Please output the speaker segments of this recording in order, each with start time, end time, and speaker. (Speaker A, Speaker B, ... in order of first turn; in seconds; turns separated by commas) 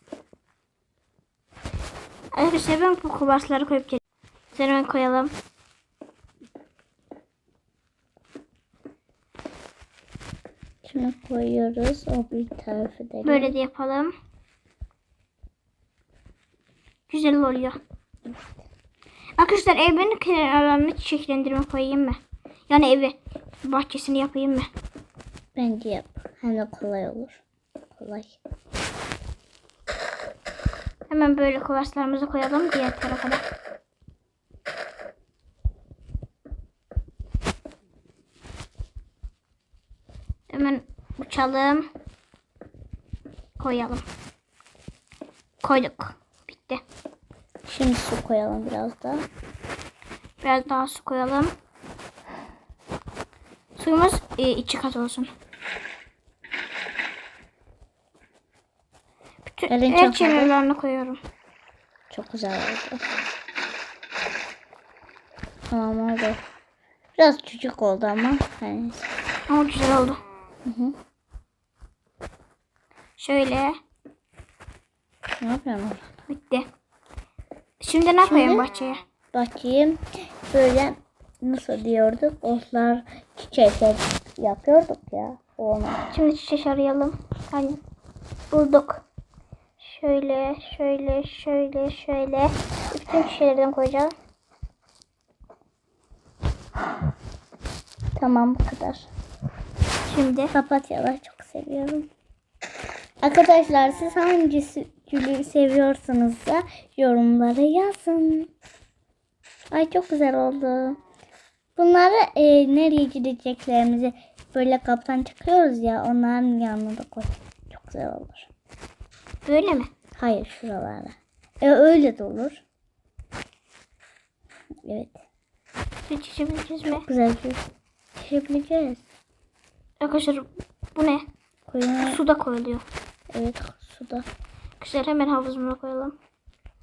Speaker A: 2.3-4.0, Speaker A: 4.5-5.3, Speaker B: 10.8-13.5, Speaker A: 13.2-14.1, Speaker A: 17.1-17.8, Speaker A: 19.4-24.7, Speaker B: 25.6-27.4, Speaker B: 28.0-28.4, Speaker A: 31.1-33.5, Speaker A: 40.5-41.9, Speaker A: 43.6-44.0, Speaker A: 45.6-46.8, Speaker B: 47.6-49.2, Speaker A: 50.4-51.5, Speaker A: 53.8-55.3, Speaker A: 59.5-61.2, Speaker B: 59.7-60.5, Speaker B: 62.1-63.0, Speaker B: 65.7-66.4, Speaker B: 67.2-69.1, Speaker A: 69.5-70.2, Speaker B: 70.7-70.9, Speaker A: 73.2-73.8, Speaker B: 75.4-76.1, Speaker A: 76.3-76.7, Speaker A: 77.8-79.0, Speaker B: 78.2-78.7, Speaker B: 79.3-86.1, Speaker A: 86.1-87.8, Speaker A: 88.5-89.0, Speaker A: 89.8-94.1, Speaker B: 98.2-99.1, Speaker A: 100.1-100.5, Speaker B: 100.5-102.1, Speaker B: 103.2-108.5, Speaker B: 109.7-111.0, Speaker B: 111.8-118.5, Speaker A: 119.5-119.9, Speaker B: 120.2-122.6, Speaker B: 124.8-125.2, Speaker A: 126.1-127.1, Speaker B: 126.9-127.6, Speaker B: 128.2-129.1, Speaker A: 130.0-131.3, Speaker B: 131.7-132.2, Speaker A: 132.0-132.8, Speaker B: 133.3-134.3, Speaker A: 134.8-136.2